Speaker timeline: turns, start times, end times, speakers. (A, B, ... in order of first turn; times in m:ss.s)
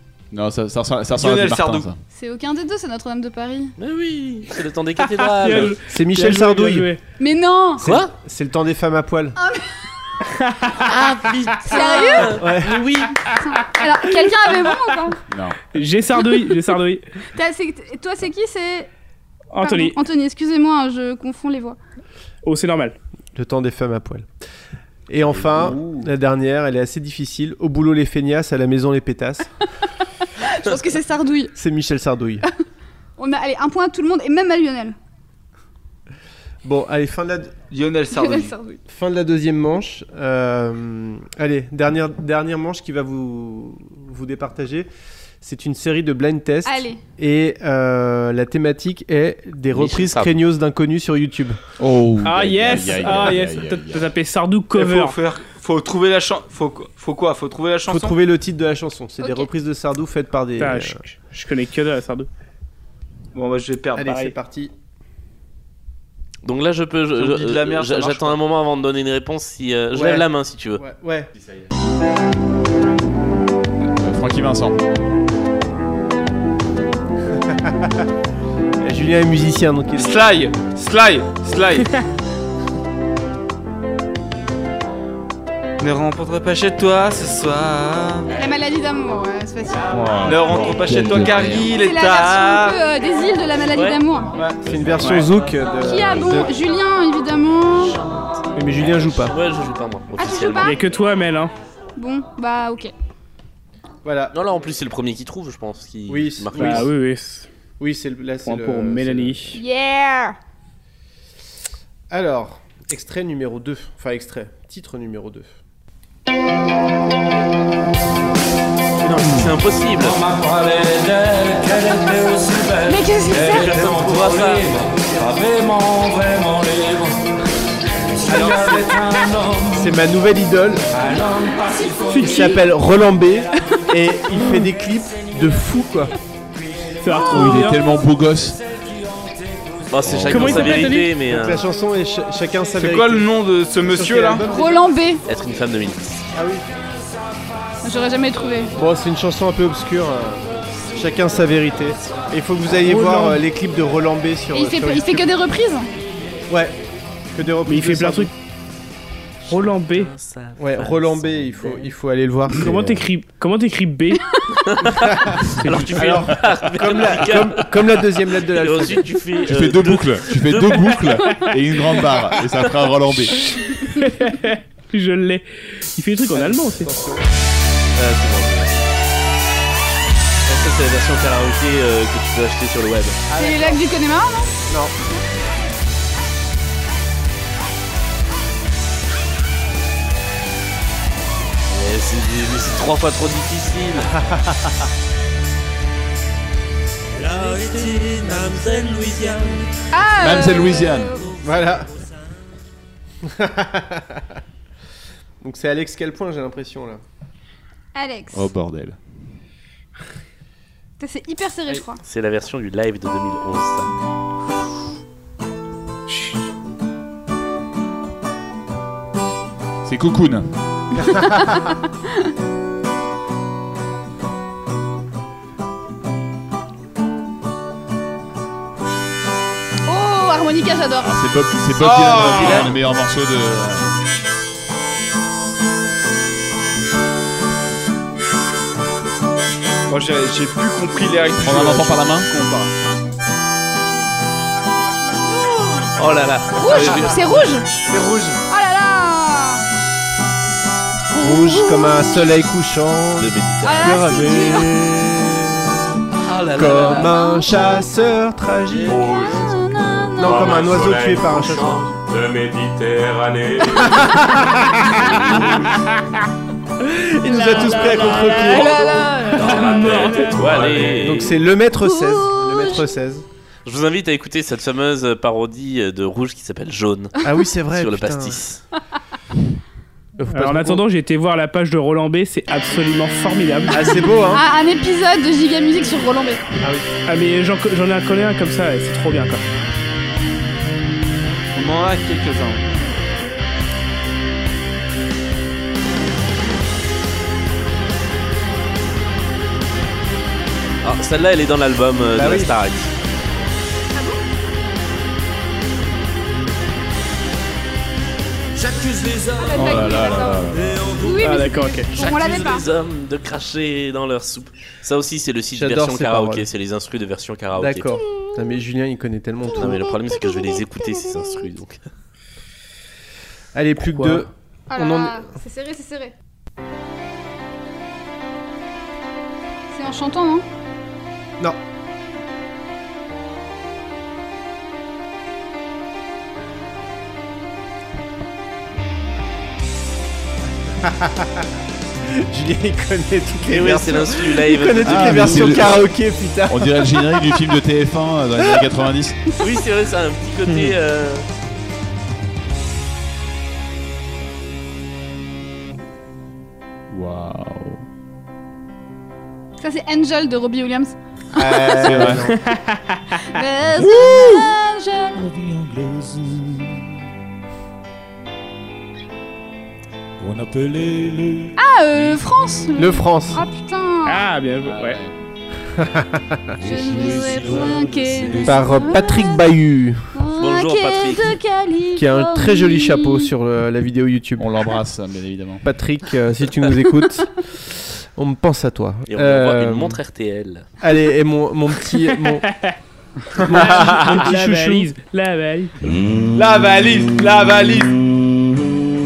0:00.3-0:02.0 A
0:01.2-0:01.9 B
0:02.1-0:03.7 C
0:03.8-0:05.8 D
0:05.2-0:07.0 E
0:05.8-0:06.9 F
0:07.2-0:07.8 C
0:07.8-0:09.4 F
0:07.8-0:08.1 D
0:09.4-0:09.7 C
0:10.4-0:10.7 E
0:10.8-0:13.3 D
0:11.6-0:12.6 C
0:12.3-0:12.9 F
0:13.2-0:15.2 C
0:15.3-0:15.6 A
0:15.7-0:17.0 E
0:17.3-0:18.9 C
0:19.5-0:20.0 E
0:19.6-0:21.8 C
0:22.4-0:23.0 E
0:23.4-0:24.3 F
0:25.1-0:29.5 F
0:25.6-0:26.1 B
0:30.4-0:31.5 C
0:31.6-0:32.4 F
0:33.2-0:35.0 C
0:36.6-0:37.5 F
0:37.7-0:38.5 B
0:38.1-0:38.8 C
0:38.9-0:44.9 F
0:45.4-0:51.6 F
0:46.6-0:47.0 C
0:49.7-0:50.4 D
0:51.8-0:54.1 A
0:52.2-0:55.2 E
0:54.8-0:58.2 B
0:57.9-1:01.0 F
0:59.2-0:59.5 C
1:00.6-1:02.3 E
1:03.3-1:04.1 B
1:04.0-1:04.7 F
1:06.4-1:10.8 D
1:07.2-1:08.4 B
1:09.9-1:10.3 F
1:10.8-1:11.3 F
1:14.0-1:14.8 A
1:17.3-1:18.0 F
1:18.8-1:20.2 F
1:20.0-1:22.0 B
1:25.8-1:28.3 B
1:28.3-1:29.9 C
1:29.9-1:31.7 A
1:30.2-1:32.8 B
1:31.7-1:34.4 C
1:33.7-1:34.0 D
1:34.3-1:36.5 F
1:34.8-1:35.0 A
1:35.8-1:38.0 C
1:38.6-1:39.4 F
1:38.8-1:40.8 D
1:40.2-1:40.8 C
1:40.6-1:41.5 E
1:42.0-1:42.9 C
1:44.0-1:44.4 F
1:44.3-1:46.9 D
1:46.1-1:46.9 F
1:46.6-1:47.5 E
1:47.8-1:49.6 F
1:48.4-1:49.6 E
1:49.5-1:50.4 C
1:52.1-1:55.5 F
1:59.0-2:00.2 D
2:00.0-2:07.2 G
2:02.8-2:03.8 C
2:03.4-2:04.8 D
2:08.2-2:10.0 G
2:08.3-2:08.8 F
2:09.7-2:10.9 F
2:10.9-2:12.6 G
2:12.1-2:12.5 E
2:12.2-2:16.1 F
2:17.0-2:17.8 E
2:17.1-2:17.6 G
2:17.3-2:18.6 A
2:19.2-2:19.8 G
2:19.9-2:21.6 D
2:20.0-2:20.5 A
2:20.3-2:21.1 E
2:21.3-2:23.3 F
2:22.8-2:24.5 B
2:23.8-2:24.8 F
2:24.5-2:25.2 C
2:25.3-2:26.2 D
2:26.3-2:26.7 F
2:27.8-2:28.8 C
2:28.8-2:35.3 F
2:32.8-2:33.4 E
2:34.5-2:35.9 C
2:36.5-2:36.8 F
2:37.3-2:38.3 F
2:37.7-2:38.3 E
2:39.5-2:41.9 D
2:39.5-2:40.1 E
2:40.6-2:42.9 F
2:42.5-2:44.3 E
2:42.7-2:43.0 A
2:44.3-2:44.6 C
2:44.7-2:51.2 D
2:45.0-2:49.1 F
2:49.4-2:53.4 A
2:52.4-2:52.7 D
2:53.9-2:56.9 E
2:56.3-2:57.2 F
2:58.0-2:58.9 D
3:00.5-3:03.2 D
3:03.3-3:03.8 F
3:03.3-3:04.5 C
3:04.7-3:04.9 F
3:11.7-3:14.1 D
3:14.1-3:14.7 F
3:17.2-3:19.6 G
3:19.9-3:21.4 C
3:20.2-3:21.2 A
3:21.4-3:21.9 F
3:23.2-3:24.4 F
3:25.4-3:27.0 F
3:28.0-3:28.5 C
3:28.3-3:29.0 A
3:31.0-3:32.0 C
3:32.0-3:33.9 D
3:36.1-3:36.4 E
3:39.8-3:40.5 A
3:41.0-3:42.3 C
3:49.9-3:51.1 C
3:51.0-3:54.0 A
3:51.8-3:52.8 B
3:59.9-4:02.7 B
4:01.4-4:02.3 A
4:06.0-4:07.3 D
4:06.6-4:07.8 C
4:06.6-4:07.2 B
4:07.9-4:08.4 F
4:08.5-4:09.6 C
4:11.1-4:15.7 F
4:11.2-4:12.5 C
4:13.2-4:14.0 D
4:13.6-4:14.8 C
4:16.2-4:17.2 D
4:16.5-4:19.1 F
4:17.0-4:17.9 C
4:18.9-4:19.6 G
4:18.9-4:20.5 C
4:20.2-4:25.4 G
4:20.2-4:21.9 F
4:23.8-4:25.6 F
4:26.8-4:28.9 F
4:27.3-4:27.7 C
4:27.6-4:31.4 D
4:28.0-4:28.3 G
4:28.7-4:29.3 C
4:28.8-4:31.3 G
4:30.9-4:33.2 F
4:31.7-4:32.9 C
4:33.6-4:37.2 D
4:37.2-4:38.4 F
4:37.7-4:38.6 D
4:40.2-4:40.8 F
4:40.3-4:44.0 E
4:43.7-4:44.4 F
4:44.3-4:46.4 C
4:46.6-4:46.9 F
4:47.1-4:49.5 E
4:51.6-4:52.6 B
5:00.8-5:02.9 D
5:02.1-5:02.5 F
5:03.9-5:04.2 C
5:08.6-5:11.4 G
5:09.4-5:12.6 C
5:09.5-5:10.8 A
5:11.2-5:11.9 E
5:12.0-5:18.0 D
5:15.5-5:16.5 F
5:17.6-5:19.9 F
5:19.5-5:21.8 D
5:23.5-5:25.3 F
5:23.9-5:24.2 E
5:24.7-5:26.1 C
5:29.7-5:30.4 C
5:40.8-5:41.4 F
5:42.1-5:47.0 F
5:43.5-5:45.8 D
5:44.8-5:45.9 A
5:46.5-5:49.2 A
5:49.4-5:51.2 D
5:56.9-5:57.8 A
5:59.6-6:02.2 C
6:01.4-6:02.4 F
6:01.8-6:02.3 A
6:02.3-6:03.2 E
6:03.3-6:05.2 C
6:03.8-6:04.4 A
6:05.2-6:06.5 A
6:10.2-6:11.4 A
6:10.8-6:11.5 G
6:11.6-6:14.2 C
6:12.8-6:13.4 F
6:14.0-6:15.0 E
6:14.6-6:15.1 A
6:15.8-6:16.6 F
6:16.6-6:19.1 G
6:16.6-6:19.4 C
6:18.4-6:20.1 F
6:20.1-6:23.3 C
6:20.4-6:21.4 D
6:21.9-6:24.5 F
6:24.4-6:25.6 A
6:25.6-6:27.3 F
6:28.2-6:30.0 F
6:29.1-6:30.7 D
6:30.8-6:32.5 F
6:32.5-6:32.8 E
6:33.4-6:34.2 B
6:33.4-6:34.9 F
6:33.5-6:35.7 E
6:35.8-6:36.4 G
6:36.4-6:38.0 B